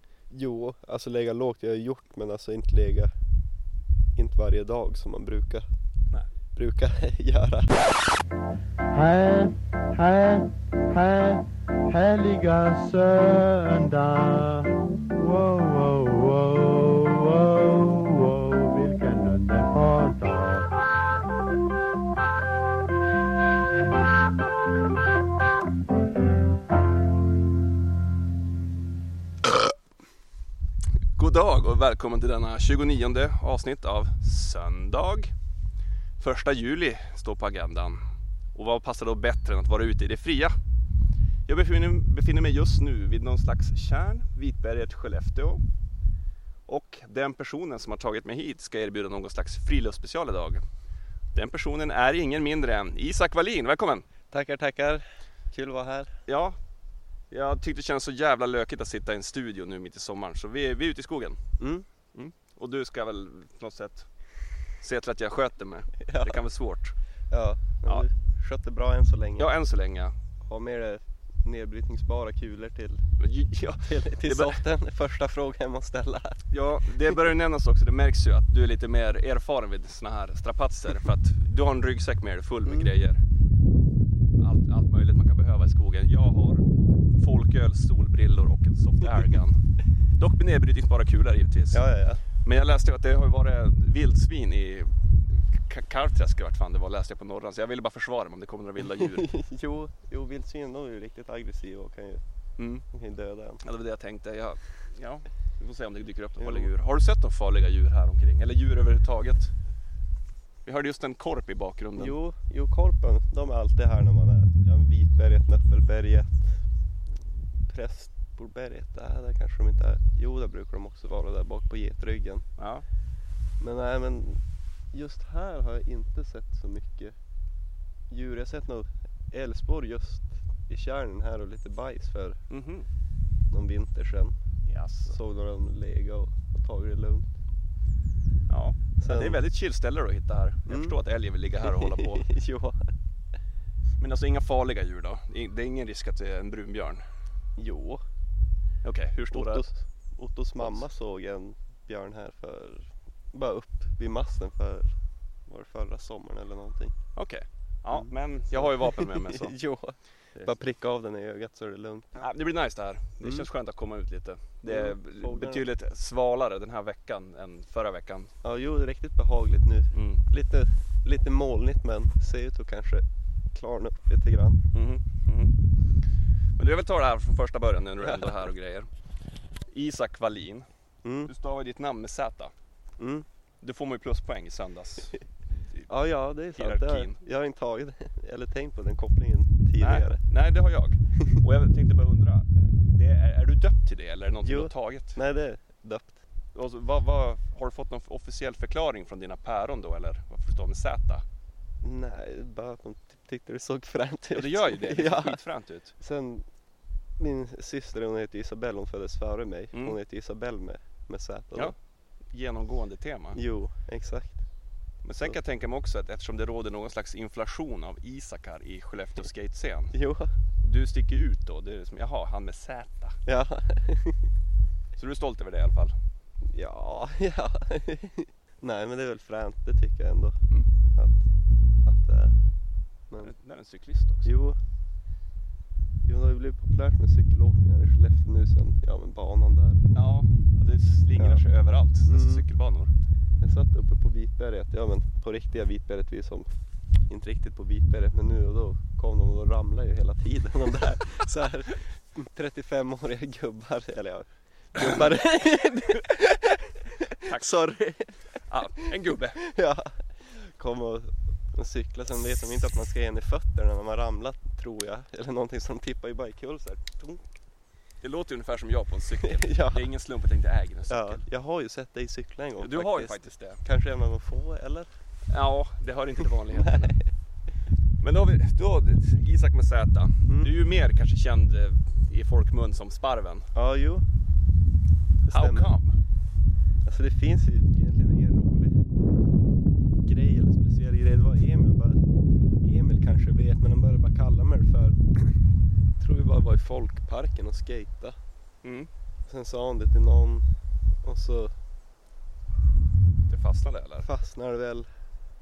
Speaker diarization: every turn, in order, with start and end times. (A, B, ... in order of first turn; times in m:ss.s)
0:00.3-0:03.1 A
0:04.2-0:05.6 A
0:06.6-0:07.7 A
0:08.9-0:20.7 B
0:31.2-0:35.3 C
0:36.2-0:38.0 C
0:38.6-0:40.6 C
0:41.5-0:45.6 C
0:46.7-0:50.6 C
0:51.3-0:54.1 C
0:54.3-0:56.1 A
0:56.3-0:56.6 C
0:57.3-1:01.4 C
1:01.6-1:01.9 A
1:02.1-1:04.1 C
1:04.8-1:06.9 C
1:06.0-1:06.4 A
1:07.3-1:09.5 A
1:09.4-1:10.1 C
1:10.4-1:13.0 A
1:13.2-1:14.6 C
1:13.8-1:16.4 A
1:16.5-1:23.2 C
1:22.6-1:22.9 A
1:24.4-1:29.6 C
1:30.2-1:31.8 C
1:31.7-1:32.2 A
1:32.4-1:39.3 C
1:38.8-1:42.2 A
1:42.6-1:42.8 C
1:42.9-1:43.6 A
1:43.6-1:49.5 C
1:46.4-1:46.7 A
1:50.6-1:52.2 C
1:52.0-1:56.6 A
1:57.6-2:02.4 A
2:02.6-2:02.8 C
2:03.6-2:04.4 A
2:04.9-2:07.2 A
2:08.1-2:12.4 A
2:12.5-2:12.9 C
2:13.5-2:14.4 A
2:14.7-2:15.2 C
2:15.1-2:17.4 A
2:18.5-2:22.3 C
2:19.0-2:19.4 A
2:20.7-2:21.0 A
2:21.6-2:22.9 A
2:24.0-2:27.0 C
2:27.6-2:28.0 A
2:28.8-2:29.7 C
2:29.3-2:34.9 A
2:35.5-2:36.9 A
2:37.2-2:39.6 C
2:38.5-2:42.3 A
2:42.2-2:48.3 C
2:43.2-2:43.5 A
2:44.7-2:45.6 A
2:48.4-2:54.6 A
2:49.9-2:50.2 C
2:54.7-2:55.6 C
2:56.6-2:58.9 C
2:58.0-2:58.4 A
2:59.7-3:00.7 C
3:01.0-3:01.3 A
3:01.2-3:02.5 C
3:03.0-3:03.3 A
3:03.6-3:05.2 C
3:05.9-3:10.2 A
3:06.6-3:07.2 C
3:09.8-3:15.2 C
3:14.4-3:16.2 A
3:16.5-3:21.2 C
3:21.8-3:25.4 A
3:24.3-3:25.9 C
3:26.0-3:26.4 A
3:27.2-3:31.7 A
3:32.3-3:33.4 C
3:33.3-3:34.4 A
3:35.0-3:40.0 C
3:39.9-3:40.3 A
3:40.6-3:43.2 C
3:43.3-3:44.3 A
3:45.0-3:46.0 C
3:46.4-3:50.4 A
3:50.9-3:51.2 A
3:51.8-3:52.4 A
3:53.2-3:54.3 C
3:54.2-3:54.6 A
3:56.1-4:00.1 A
4:00.0-4:02.9 C
4:01.2-4:01.4 A
4:02.1-4:02.4 A
4:03.4-4:06.5 A
4:07.1-4:18.2 A
4:17.1-4:17.8 C
4:18.4-4:19.4 C
4:19.4-4:27.4 A
4:28.0-4:31.2 C
4:29.2-4:29.9 A
4:30.9-4:34.9 A
4:32.6-4:33.6 C
4:35.3-4:36.9 C
4:36.2-4:37.0 A
4:38.0-4:43.5 C
4:40.3-4:40.5 A
4:43.6-4:44.0 A
4:45.2-4:45.7 A
4:45.3-4:46.0 C
4:46.8-4:48.8 A
4:50.0-4:52.0 A
4:52.6-4:55.0 A
4:56.0-4:58.2 A
4:58.6-4:58.9 C
4:59.3-5:00.5 A
5:01.0-5:01.5 A
5:03.3-5:04.1 C
5:04.0-5:04.9 A